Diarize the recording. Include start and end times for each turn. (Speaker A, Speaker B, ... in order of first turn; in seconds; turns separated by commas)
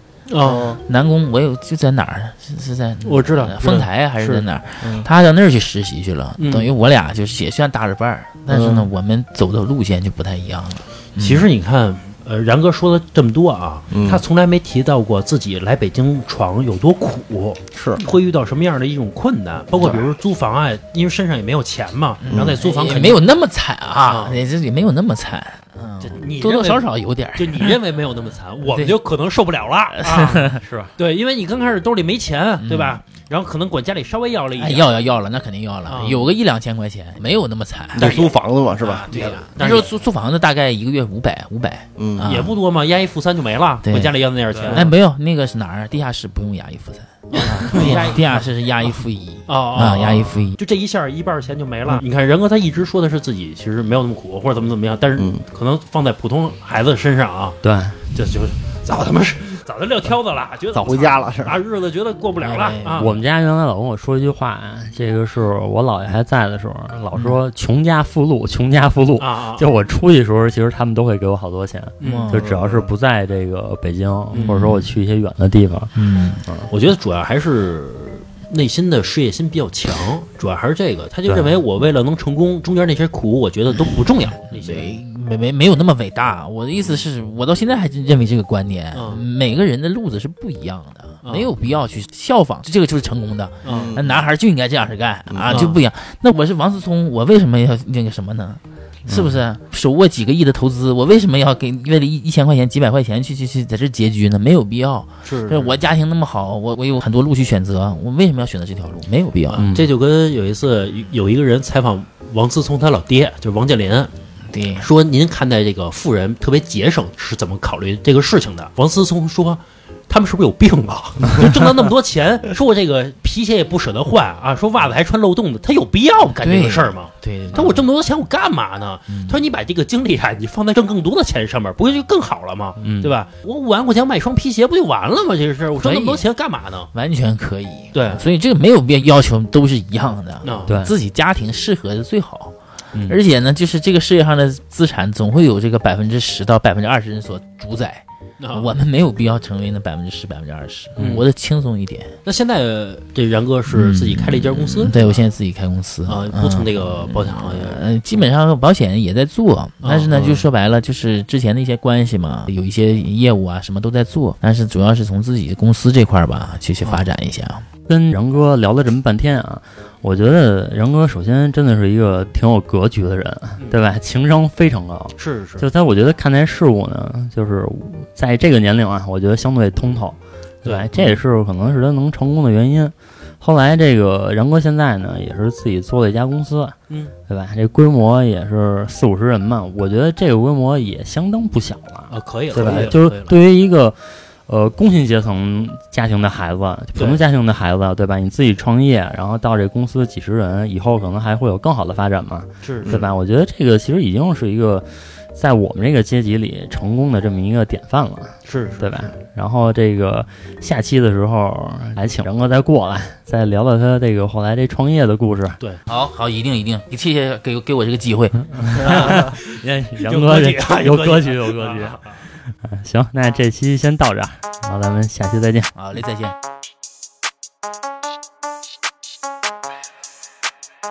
Speaker A: 0.3-0.8, Speaker B: 0.4-0.8, Speaker C: 0.8-11.5, Speaker A: 3.0-4.4, Speaker B: 4.8-5.1, Speaker A: 6.4-6.7, Speaker B: 8.5-8.9, Speaker A: 11.2-23.2, Speaker B: 13.9-14.2, Speaker B: 17.7-18.0, Speaker B: 19.8-20.1, Speaker C: 22.2-27.8, Speaker B: 22.3-22.6, Speaker A: 24.1-24.4, Speaker A: 26.0-34.9, Speaker C: 28.6-29.0, Speaker C: 30.0-30.6, Speaker D: 30.6-30.9, Speaker C: 32.6-33.0, Speaker C: 34.6-38.2, Speaker A: 35.9-36.3, Speaker B: 38.0-39.3, Speaker A: 38.0-38.4, Speaker C: 38.8-42.5, Speaker A: 39.1-39.9, Speaker B: 42.0-42.3, Speaker A: 42.2-44.9, Speaker C: 43.9-50.6, Speaker D: 44.5-44.8, Speaker A: 47.3-48.4, Speaker A: 49.5-63.2, Speaker B: 55.2-55.4, Speaker D: 57.6-58.0, Speaker B: 60.7-61.6, Speaker C: 62.4-63.1, Speaker D: 63.0-75.9, Speaker A: 69.2-69.7, Speaker A: 72.0-72.3, Speaker C: 72.0-72.5, Speaker B: 72.4-72.9, Speaker A: 74.3-74.6, Speaker C: 76.0-76.5, Speaker A: 76.7-85.0, Speaker C: 84.4-109.7, Speaker A: 88.9-89.2, Speaker A: 93.7-94.0, Speaker B: 93.7-94.2, Speaker B: 95.3-95.6, Speaker A: 95.5-95.8, Speaker D: 99.1-99.4, Speaker A: 105.2-105.8, Speaker A: 109.5-114.1, Speaker D: 109.6-109.9, Speaker C: 114.5-114.9, Speaker A: 114.8-136.9, Speaker C: 126.4-127.8, Speaker C: 129.1-129.5, Speaker D: 132.8-133.2, Speaker C: 135.8-136.3, Speaker C: 136.9-142.6, Speaker A: 137.9-138.2, Speaker A: 140.4-140.7, Speaker D: 140.7-140.9, Speaker D: 142.9-143.2, Speaker C: 143.1-152.2, Speaker A: 148.4-148.7, Speaker D: 151.0-151.2, Speaker A: 151.0-151.3, Speaker A: 152.2-155.2, Speaker C: 153.7-167.7, Speaker A: 156.1-157.8, Speaker A: 159.8-160.5, Speaker D: 167.9-186.8, Speaker A: 175.2-175.7, Speaker A: 180.6-181.2, Speaker D: 187.3-215.6, Speaker A: 192.1-193.4, Speaker A: 197.0-197.2, Speaker A: 202.6-202.9, Speaker A: 208.5-209.1, Speaker C: 215.9-218.9, Speaker D: 218.6-225.7, Speaker A: 218.8-219.5, Speaker A: 220.1-222.2, Speaker C: 225.8-226.4